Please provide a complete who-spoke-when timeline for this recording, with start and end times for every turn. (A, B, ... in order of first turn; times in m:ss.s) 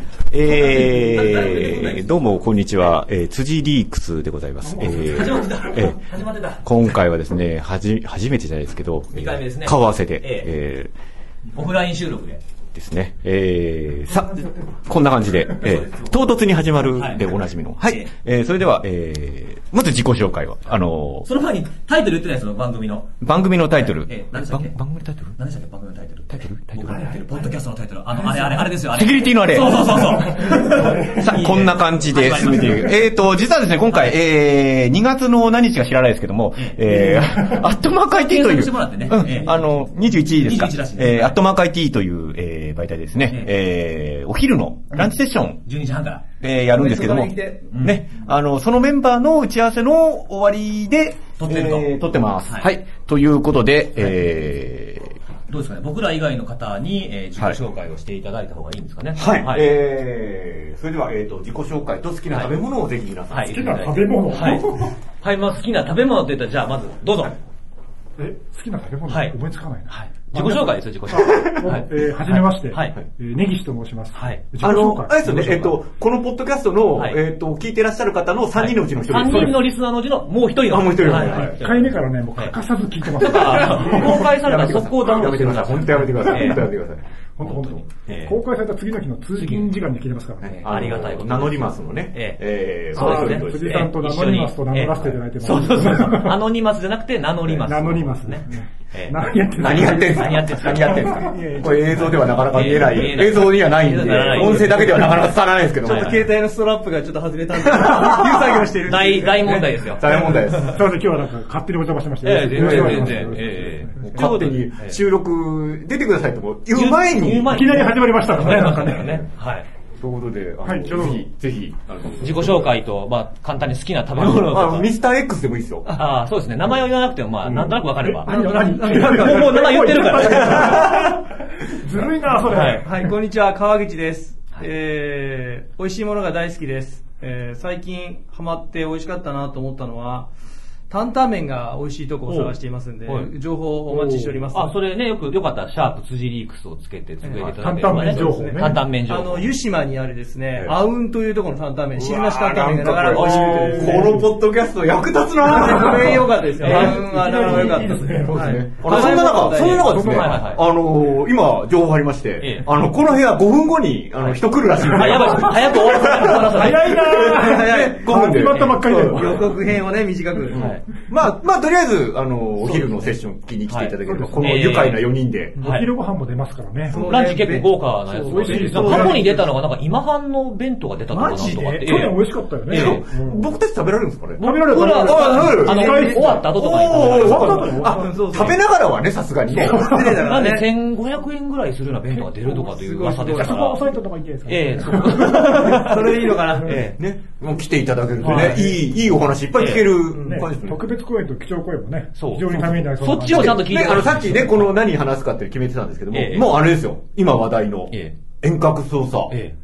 0:00.3-0:06.0 A
0:00.4-0:02.3 B
0:04.6-0:05.6 C
0:04.8-0:07.0 B
0:06.6-0:10.9 A
0:09.1-0:10.5 B
0:11.5-0:12.4 B
0:12.7-0:21.3 A
0:14.1-0:14.8 C
0:15.6-0:16.2 B
0:16.9-0:17.3 B
0:20.7-0:23.2 B
0:23.2-0:25.4 A
0:23.7-0:24.7 B
0:25.4-0:33.1 B
0:26.3-0:27.4 A
0:28.8-0:45.6 A
0:36.6-0:37.3 B
0:38.0-0:39.7 B
0:40.4-0:41.4 B
0:45.6-0:46.2 B
0:46.4-0:55.2 A
0:46.8-0:47.7 D
0:47.7-0:48.0 B
0:51.4-0:52.7 B
0:55.5-0:59.7 B
0:59.2-1:03.5 A
1:03.3-1:07.4 B
1:03.5-1:04.9 C
1:08.2-1:15.8 C
1:09.1-1:09.4 B
1:09.9-1:13.0 B
1:14.2-1:14.4 B
1:14.6-1:19.6 A
1:18.6-1:22.6 B
1:19.3-1:19.6 C
1:20.7-1:21.6 A
1:21.1-1:26.6 C
1:23.1-1:26.6 B
1:23.6-1:27.6 A
1:27.4-1:30.7 C
1:28.1-1:28.3 B
1:29.4-1:29.8 B
1:30.4-1:33.9 A
1:30.4-1:32.4 B
1:32.9-1:41.2 B
1:33.0-1:36.4 C
1:37.6-1:43.1 C
1:39.6-1:46.2 A
1:42.3-1:45.2 B
1:44.1-1:45.1 D
1:45.8-1:50.4 D
1:45.8-1:46.1 B
1:47.6-1:48.6 A
1:48.9-1:50.7 B
1:49.4-1:50.8 A
1:50.6-1:54.3 C
1:52.2-1:55.0 B
1:52.5-1:53.4 A
1:54.0-1:57.6 A
1:56.7-1:59.7 B
1:57.5-1:59.2 C
2:00.0-2:02.7 A
2:00.6-2:01.2 C
2:02.2-2:04.9 B
2:04.2-2:05.9 A
2:06.0-2:08.3 B
2:07.4-2:07.7 A
2:08.0-2:13.1 C
2:08.3-2:10.7 D
2:09.0-2:11.2 B
2:12.5-2:12.8 B
2:12.7-2:20.3 D
2:20.9-2:24.7 D
2:22.3-2:22.6 B
2:23.9-2:24.5 C
2:24.5-2:29.5 B
2:27.2-2:34.2 D
2:27.4-2:28.8 C
2:32.0-2:49.3 A
2:33.2-2:34.2 C
2:35.4-2:40.0 D
2:35.6-2:38.6 C
2:39.7-2:40.6 B
2:39.9-2:40.4 C
2:42.4-2:42.7 B
2:44.2-2:46.8 B
2:45.1-2:45.7 C
2:46.2-2:50.6 D
2:46.5-2:49.5 C
2:50.5-2:55.6 A
2:50.5-2:50.8 B
2:52.6-2:53.2 B
2:53.7-2:55.0 B
2:54.1-2:54.6 C
2:55.6-2:57.1 C
2:55.6-2:55.9 B
2:56.9-2:59.5 D
2:56.9-3:02.2 B
2:58.3-2:59.3 C
3:01.1-3:02.1 D
3:01.2-3:03.5 C
3:02.7-3:03.0 B
3:02.7-3:06.0 A
3:04.4-3:07.8 B
3:04.4-3:08.2 C
3:05.1-3:08.6 D
3:06.5-3:10.0 A
3:09.5-3:10.7 D
3:09.6-3:10.2 C
3:10.0-3:13.9 B
3:12.1-3:15.8 C
3:12.7-3:13.6 D
3:14.5-3:17.0 B
3:15.3-3:17.0 D
3:16.3-3:16.8 C
3:16.7-3:20.8 A
3:18.2-3:18.7 B
3:18.4-3:18.8 D
3:19.6-3:19.9 B
3:20.1-3:20.5 D
3:20.2-3:23.6 C
3:22.2-3:24.8 B
3:23.3-3:29.4 A
3:26.1-3:26.6 B
3:27.9-3:28.2 B